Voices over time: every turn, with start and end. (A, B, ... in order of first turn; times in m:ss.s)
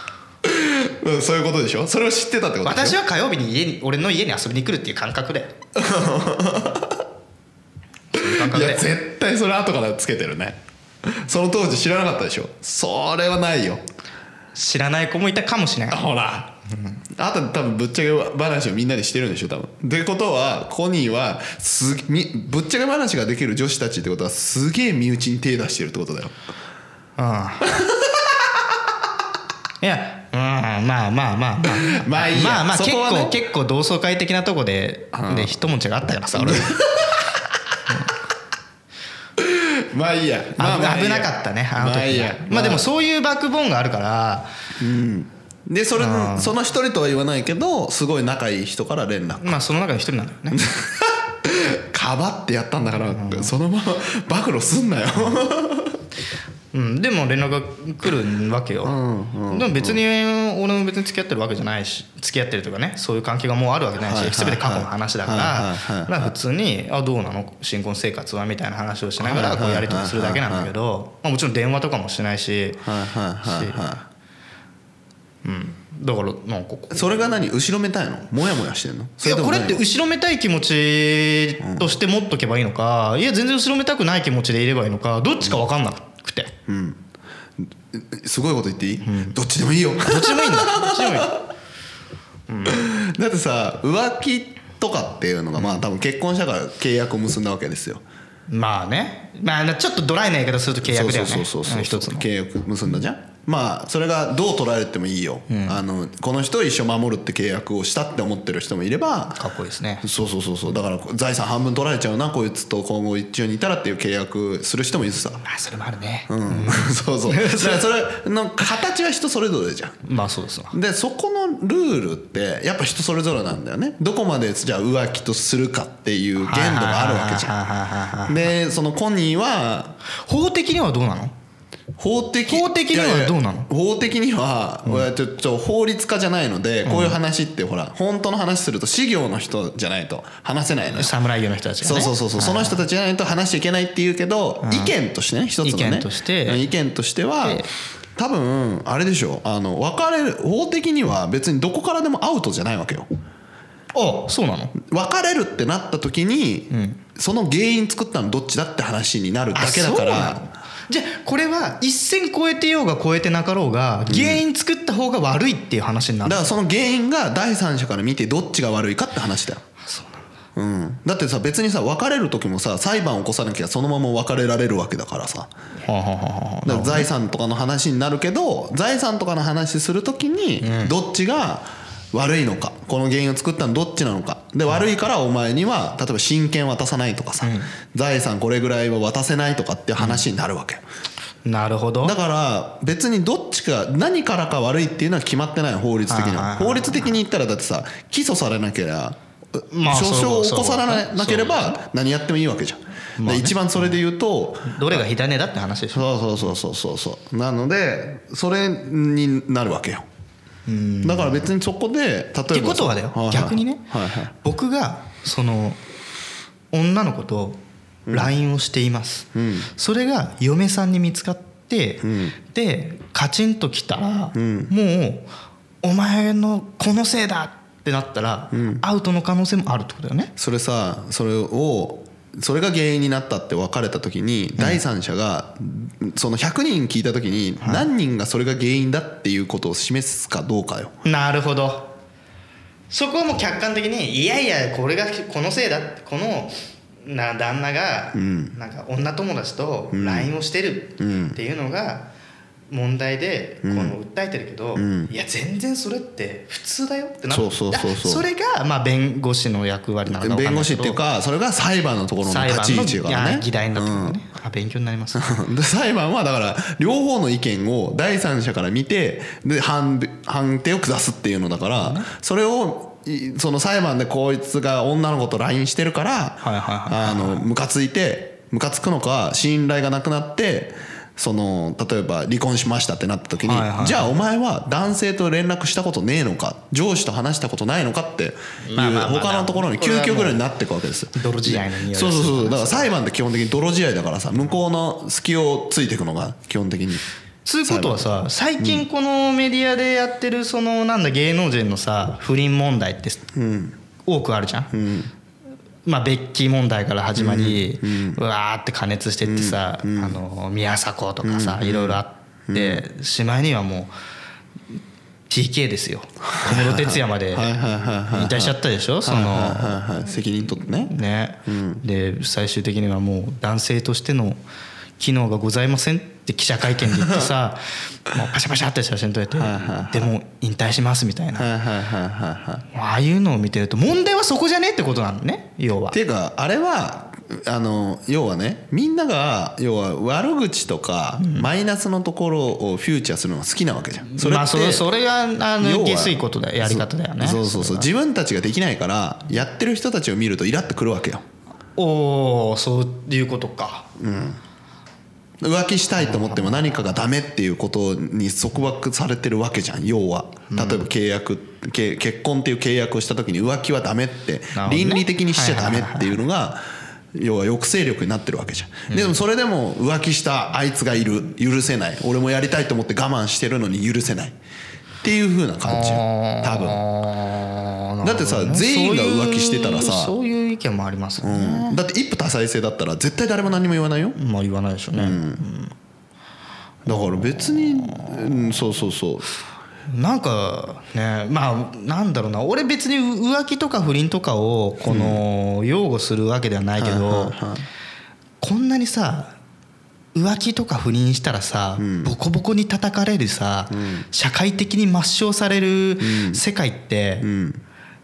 0:00.4-0:03.0 A
0:02.6-0:05.5 B
0:05.8-0:07.0 A
0:08.1-0:08.9 B
0:08.1-0:13.8 A
0:14.6-0:16.0 B
0:15.9-0:16.5 A
0:17.1-0:26.4 A
0:27.2-0:27.7 B
0:27.6-0:28.8 A
0:29.8-0:36.8 B
0:31.9-0:33.4 A
0:35.1-0:35.6 A
0:36.3-0:37.6 A
0:39.4-0:42.9 A
0:40.6-0:44.5 B
0:44.8-0:49.6 A
0:46.0-0:46.6 B
0:49.4-0:50.6 B
0:50.5-0:56.0 A
0:53.1-0:53.5 B
0:56.7-0:59.0 B
0:58.8-1:00.0 A
0:59.5-1:12.8 B
1:04.0-1:06.3 A
1:09.2-1:10.7 A
1:12.8-1:14.1 A
1:13.4-1:13.8 B
1:15.4-1:17.3 B
1:16.9-1:19.8 A
1:19.2-1:26.5 B
1:21.6-1:21.9 A
1:26.7-1:27.0 A
1:27.6-1:31.4 A
1:29.0-1:29.4 B
1:30.0-1:31.4 B
1:32.5-1:32.9 B
1:32.7-1:38.0 A
1:35.6-1:35.8 B
1:38.5-1:42.3 B
1:40.8-1:49.5 A
1:45.5-1:45.8 B
1:49.4-1:50.1 B
1:50.0-1:55.4 A
1:55.4-1:57.8 B
1:56.3-2:00.0 A
2:00.1-2:00.8 B
2:00.7-2:07.5 A
2:06.4-2:08.5 B
2:08.3-2:10.0 A
2:10.2-2:11.3 B
2:12.0-2:21.1 A
2:12.5-2:13.7 B
2:16.8-2:17.2 B
2:20.9-2:22.8 B
2:21.8-2:27.6 A
2:24.6-2:24.9 B
2:25.6-2:26.6 B
2:27.4-2:27.7 B
2:28.2-2:33.1 A
2:33.9-2:34.8 B
2:34.8-2:40.5 A
2:36.7-2:37.0 B
2:39.6-2:46.4 B
2:44.1-2:44.4 A
2:46.2-2:49.6 A
2:49.9-2:50.2 B
2:50.6-2:55.5 A
2:55.8-2:57.1 B
2:56.6-3:10.8 A
3:00.6-3:00.9 B
3:07.4-3:07.7 B
3:11.5-3:12.2 B
3:12.0-3:19.2 A
3:16.1-3:17.2 B
3:19.7-3:21.7 B
3:19.8-3:25.1 A
3:23.2-3:24.0 B
3:24.6-3:26.1 B
3:25.9-3:30.1 A
3:30.7-3:31.5 B
3:31.0-3:34.3 A
3:32.5-3:33.8 B
3:34.4-3:35.8 B
3:36.7-3:37.6 B
3:38.1-3:38.3 A
3:38.1-3:45.3 B
3:39.3-3:39.7 A
3:42.0-3:42.4 A
3:44.3-3:44.7 A
3:45.8-3:50.3 B
3:48.5-3:48.8 A
3:50.4-4:01.0 A
3:57.6-3:57.9 B
4:01.0-4:01.9 B
4:02.9-4:12.1 B
4:08.1-4:08.6 A
4:09.9-4:10.3 A
4:11.0-4:11.4 A
4:12.7-4:21.0 B
4:13.6-4:14.0 A
4:14.8-4:15.1 A
4:17.3-4:18.3 A
4:20.1-4:24.2 A
4:22.2-4:25.4 B
4:25.2-4:57.0 A
4:31.8-4:32.1 B
4:36.4-4:37.4 B
4:43.4-4:44.1 B
4:48.6-4:50.4 B
4:51.2-4:52.9 B
4:57.4-5:03.3 B
4:57.6-4:58.8 A
5:03.3-5:03.8 A
5:04.1-5:04.7 B
5:04.7-5:05.1 A
5:05.8-5:13.9 B
5:07.2-5:08.2 A
5:09.2-5:10.2 A
5:11.2-5:12.8 A
5:15.3-5:17.5 B
5:16.2-5:21.8 A
5:18.1-5:19.8 B
5:20.8-5:24.4 B
5:25.0-5:31.5 B
5:29.4-5:30.1 A
5:31.4-5:32.7 A
5:32.7-5:36.0 B
5:35.9-5:44.9 A
5:41.2-5:41.5 B
5:44.1-5:47.9 B
5:45.6-5:51.2 A
5:51.8-5:53.9 B
5:54.0-5:54.4 A
5:55.4-6:06.6 A
5:56.0-5:56.6 B
6:00.5-6:00.8 B
6:04.6-6:06.2 B
6:07.1-6:14.4 A
6:08.9-6:09.2 B
6:15.0-6:16.8 A
6:15.7-6:21.8 B
6:18.0-6:20.1 A
6:21.2-6:24.2 A
6:24.2-6:25.7 B
6:24.9-6:25.4 A
6:26.8-6:29.3 A
6:26.9-6:28.4 B
6:29.9-6:37.4 B
6:34.8-6:35.2 A
6:36.8-6:37.7 A
6:38.4-6:39.4 B
6:40.2-6:47.3 B
6:41.8-6:42.2 A
6:43.7-6:44.1 A
6:46.0-6:46.4 A
6:47.2-6:47.6 A